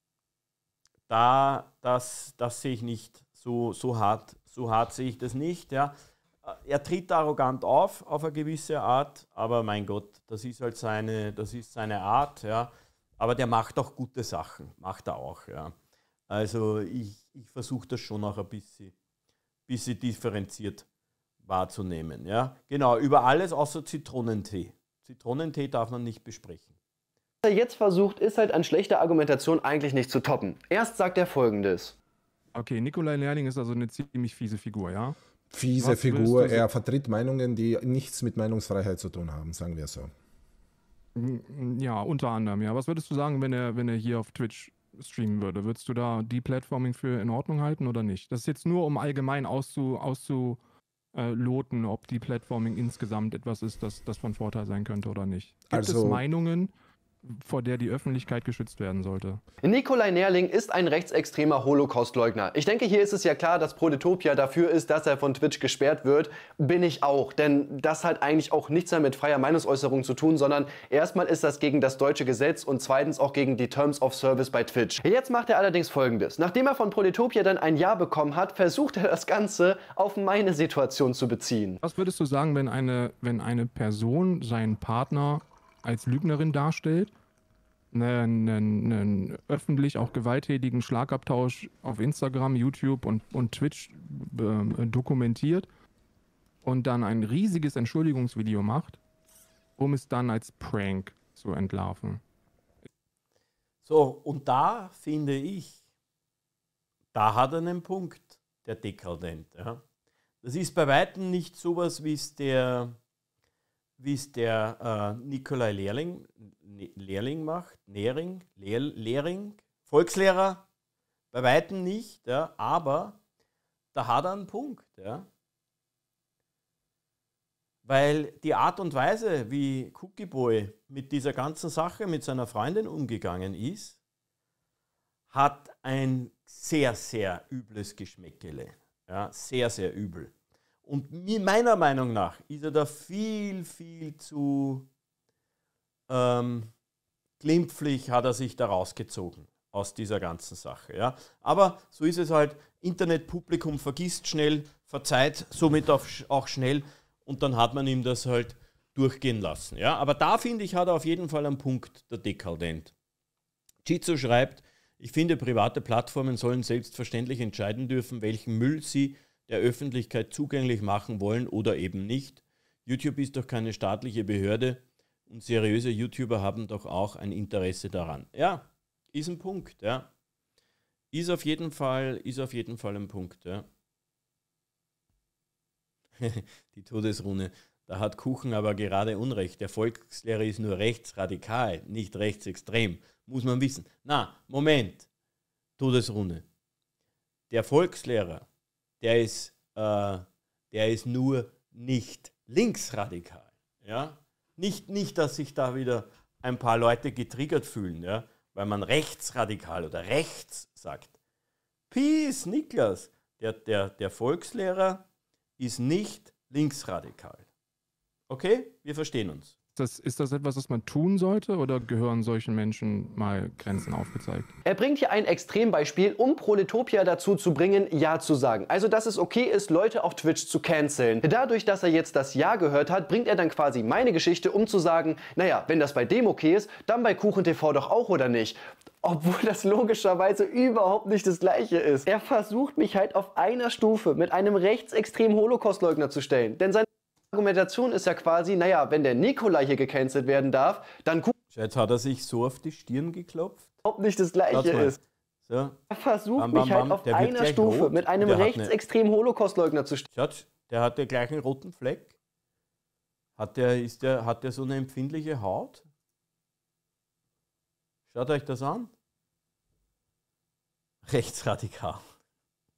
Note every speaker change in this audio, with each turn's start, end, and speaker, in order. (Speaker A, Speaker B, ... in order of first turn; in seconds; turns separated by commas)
Speaker A: 1.1-15.7, Speaker A: 16.3-18.9, Speaker A: 19.7-20.9, Speaker A: 21.4-26.7, Speaker B: 27.4-31.9, Speaker C: 32.5-35.2, Speaker D: 35.5-40.1, Speaker C: 35.8-36.6, Speaker C: 41.1-50.6, Speaker C: 51.1-56.7, Speaker D: 55.7-56.2, Speaker C: 57.2-59.4, Speaker B: 59.6-81.8, Speaker C: 81.8-87.1, Speaker C: 87.9-95.7, Speaker C: 96.6-99.0, Speaker C: 99.8-102.2, Speaker A: 103.8-105.8, Speaker A: 107.1-109.8, Speaker A: 110.4-113.0, Speaker A: 114.0-120.6, Speaker A: 121.3-123.2, Speaker A: 123.9-125.3, Speaker A: 127.8-134.0, Speaker A: 135.3-140.3, Speaker A: 140.8-144.9, Speaker A: 146.1-146.7, Speaker A: 147.4-162.9, Speaker A: 163.8-180.1, Speaker A: 181.1-183.7, Speaker A: 186.2-195.1, Speaker A: 195.8-196.4, Speaker A: 197.5-198.4, Speaker A: 199.0-211.1, Speaker A: 211.9-215.0, Speaker A: 215.6-217.4, Speaker A: 218.3-219.5, Speaker C: 219.8-224.5, Speaker B: 224.7-251.3, Speaker A: 251.5-253.7, Speaker B: 253.8-255.0, Speaker A: 254.5-255.8, Speaker B: 255.9-260.1, Speaker A: 256.4-258.7, Speaker A: 260.1-262.1, Speaker A: 263.4-265.9, Speaker A: 268.1-268.9, Speaker A: 271.0-272.0